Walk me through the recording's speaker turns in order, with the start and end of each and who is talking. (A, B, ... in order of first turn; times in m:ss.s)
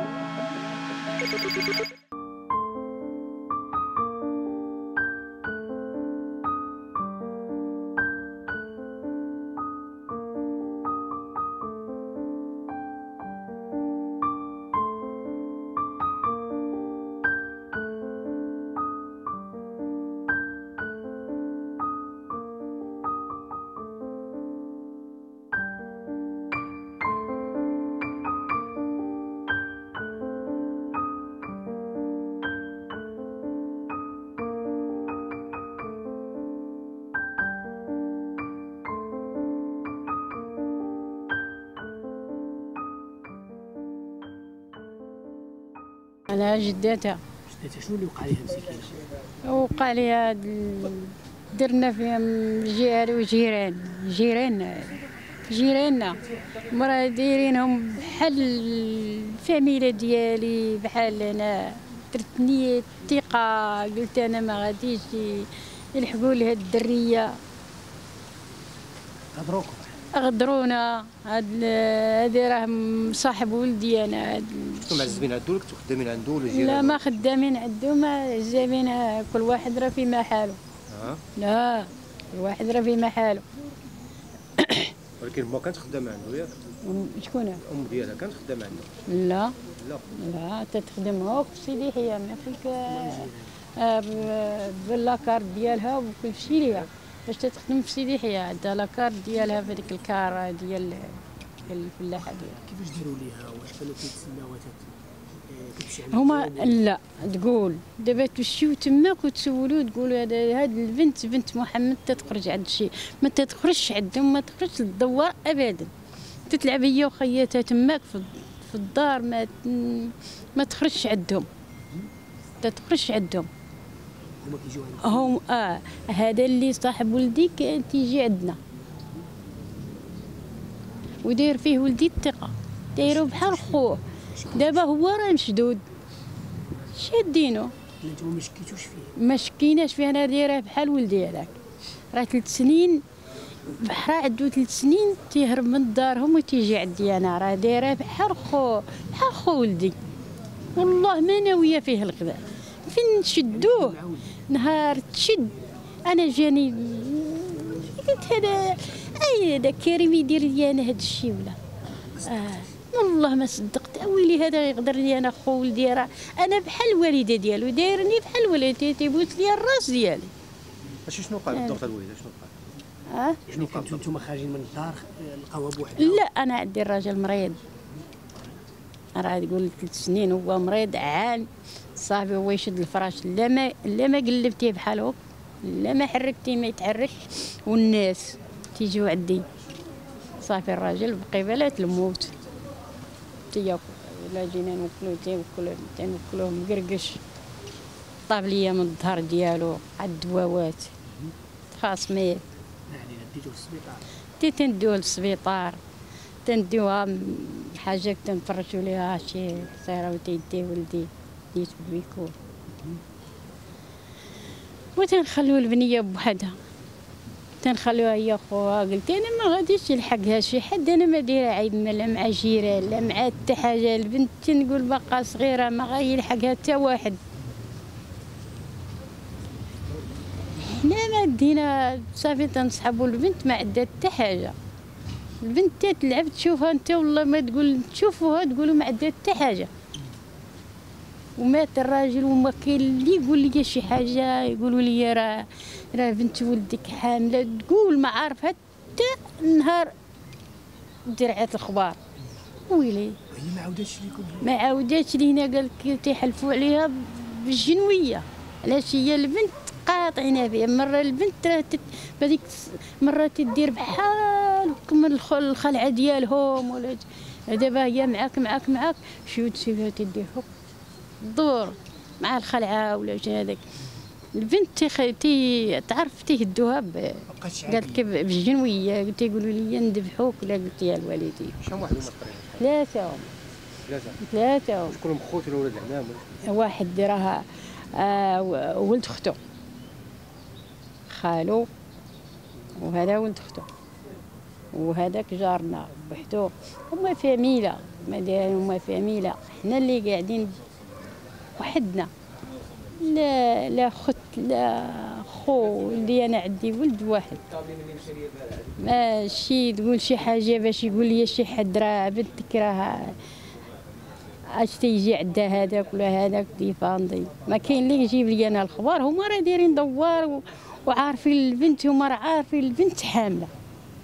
0:46.3-0:47.2 A
0:47.5-0:49.0 B
0:49.4-0:56.2 A
0:56.7-1:07.4 A
1:09.4-1:09.8 C
1:09.4-1:09.8 B
1:10.1-1:15.1 A
1:14.9-1:17.0 C
1:16.5-1:20.6 A
1:20.9-1:21.2 C
1:21.4-1:23.4 A
1:24.6-1:24.9 A
1:25.2-1:26.5 C
1:26.8-1:27.6 A
1:27.7-1:28.9 C
1:29.1-1:29.6 A
1:29.8-1:30.1 C
1:30.2-1:42.6 A
1:32.9-1:33.5 B
1:42.2-1:44.9 B
1:45.5-1:46.8 B
1:46.1-1:55.9 A
1:56.5-2:01.5 A
2:02.6-2:03.5 A
2:04.4-2:05.3 B
2:05.0-2:08.6 A
2:11.2-2:15.8 A
2:13.0-2:14.8 B
2:16.9-2:17.7 A
2:18.0-2:19.1 B
2:19.2-2:21.6 A
2:22.1-2:23.0 A
2:23.7-2:30.0 A
2:30.8-2:41.6 A
2:33.6-2:34.3 B
2:42.2-2:50.3 A
2:51.1-2:52.5 C
2:51.5-2:51.8 A
2:53.1-2:53.4 A
2:53.5-2:56.2 B
2:53.5-2:54.1 C
2:56.0-2:57.6 A
2:59.2-3:09.4 A
3:10.4-3:12.4 A
3:13.5-3:17.2 A
3:18.3-3:20.9 A
3:21.7-3:22.4 A
3:22.9-3:24.0 B
3:24.4-3:25.8 A
3:26.4-3:32.4 A
3:35.0-3:36.6 A
3:37.6-3:47.2 A
3:50.6-3:54.6 A
3:55.4-3:59.7 A
4:01.4-4:09.9 A
4:11.1-4:12.0 A
4:12.7-4:13.2 A
4:13.3-4:14.4 B
4:14.4-4:30.5 A
4:31.2-4:33.6 A
4:34.4-4:41.6 A
4:37.5-4:37.8 B
4:41.6-4:42.7 C
4:42.6-4:43.3 A
4:43.9-4:44.2 C
4:44.2-4:45.0 A
4:44.9-4:46.4 C
4:46.4-4:49.4 A
4:51.1-4:51.7 A
4:52.7-4:53.7 A
4:54.7-5:00.6 A
5:01.6-5:02.1 A
5:03.0-5:07.4 A
5:08.8-5:13.2 A
5:14.6-5:23.5 A